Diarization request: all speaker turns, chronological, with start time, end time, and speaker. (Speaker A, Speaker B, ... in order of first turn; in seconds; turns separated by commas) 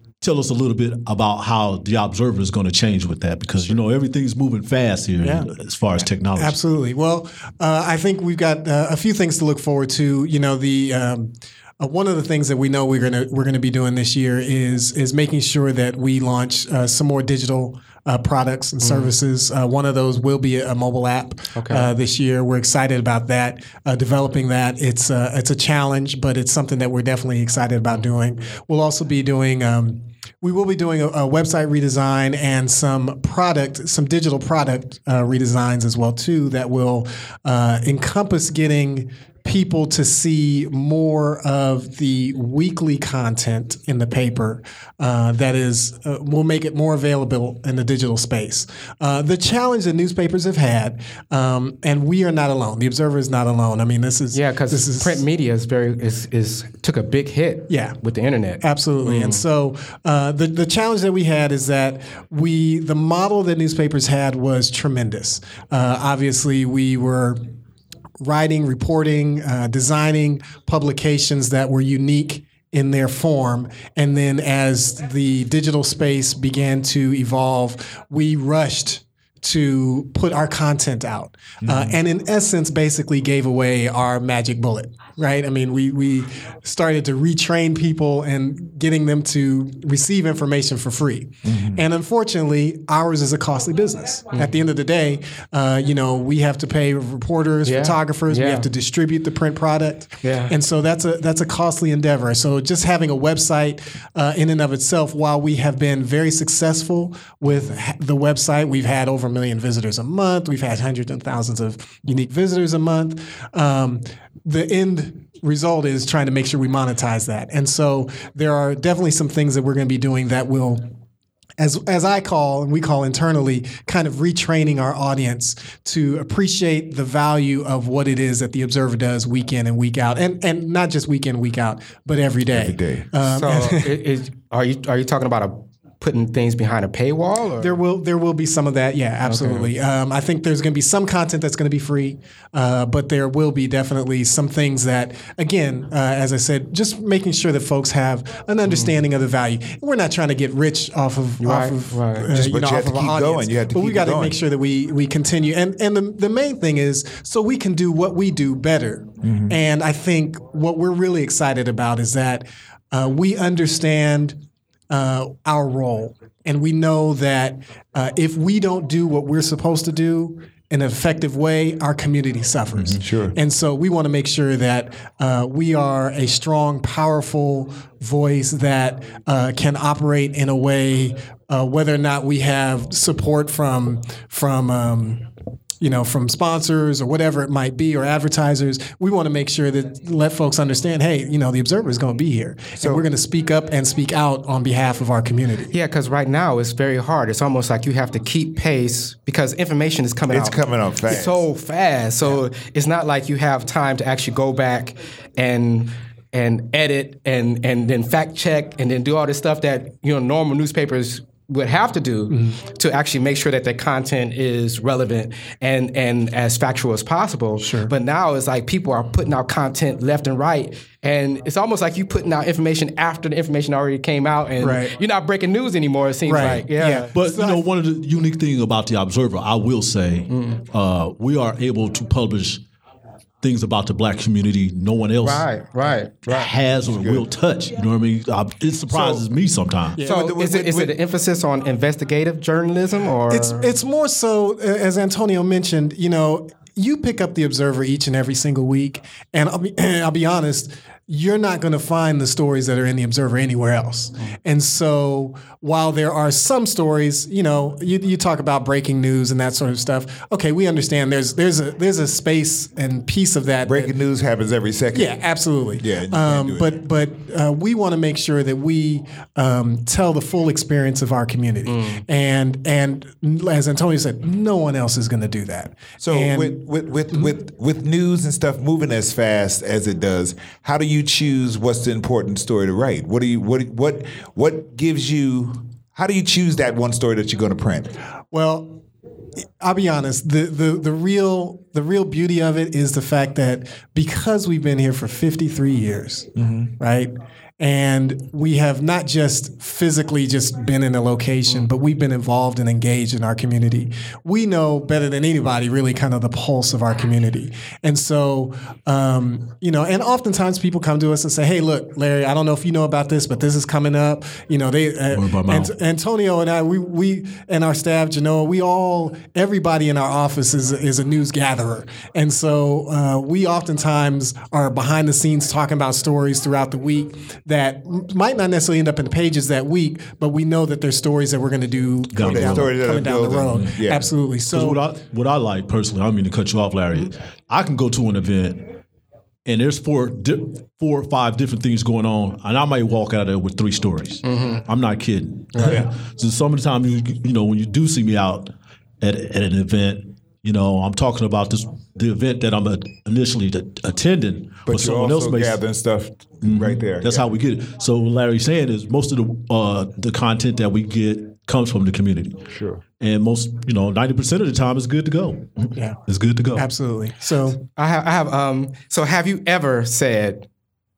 Speaker A: 0.2-6.6, Speaker B: 5.2-5.5, Speaker B: 6.3-55.2, Speaker C: 18.8-19.1, Speaker C: 21.5-21.9, Speaker C: 54.3-59.4, Speaker B: 57.7-58.0, Speaker B: 58.6-67.4, Speaker B: 68.2-120.9, Speaker D: 81.6-82.0, Speaker D: 91.4-91.8, Speaker C: 97.6-98.7, Speaker C: 100.2-100.6, Speaker B: 121.6-134.0, Speaker D: 132.5-133.1, Speaker C: 133.2-137.8, Speaker B: 137.6-185.3, Speaker C: 139.3-139.7, Speaker C: 148.7-148.9, Speaker C: 151.4-152.3, Speaker D: 152.2-154.4, Speaker D: 159.2-159.6, Speaker A: 172.8-173.1, Speaker D: 173.0-173.3, Speaker B: 185.8-195.7, Speaker D: 192.8-193.0, Speaker C: 195.7-227.1, Speaker D: 200.3-201.5, Speaker B: 212.3-212.6, Speaker B: 217.6-217.9, Speaker B: 224.6-225.0, Speaker B: 226.2-227.6, Speaker A: 227.1-232.6, Speaker C: 230.3-230.6, Speaker A: 233.4-235.5, Speaker C: 235.2-236.3, Speaker D: 236.2-237.2, Speaker A: 236.2-240.0, Speaker D: 238.9-239.3, Speaker B: 240.0-240.3, Speaker D: 240.0-240.9, Speaker C: 240.0-243.7, Speaker B: 243.3-263.9, Speaker D: 263.6-265.2, Speaker B: 264.9-277.3, Speaker D: 265.8-266.7, Speaker C: 271.6-272.0, Speaker D: 276.0-287.9, Speaker B: 288.3-288.8, Speaker B: 289.6-334.8, Speaker D: 296.4-296.7, Speaker A: 315.1-315.7, Speaker A: 332.1-332.8, Speaker D: 332.2-334.1, Speaker A: 333.5-333.8, Speaker A: 334.5-338.8, Speaker A: 339.5-355.6, Speaker C: 344.2-344.6, Speaker C: 345.5-345.8, Speaker D: 345.6-345.9, Speaker D: 354.6-357.3, Speaker A: 356.4-362.5, Speaker D: 362.5-362.8, Speaker A: 363.0-366.7, Speaker B: 366.5-367.6, Speaker C: 367.8-370.5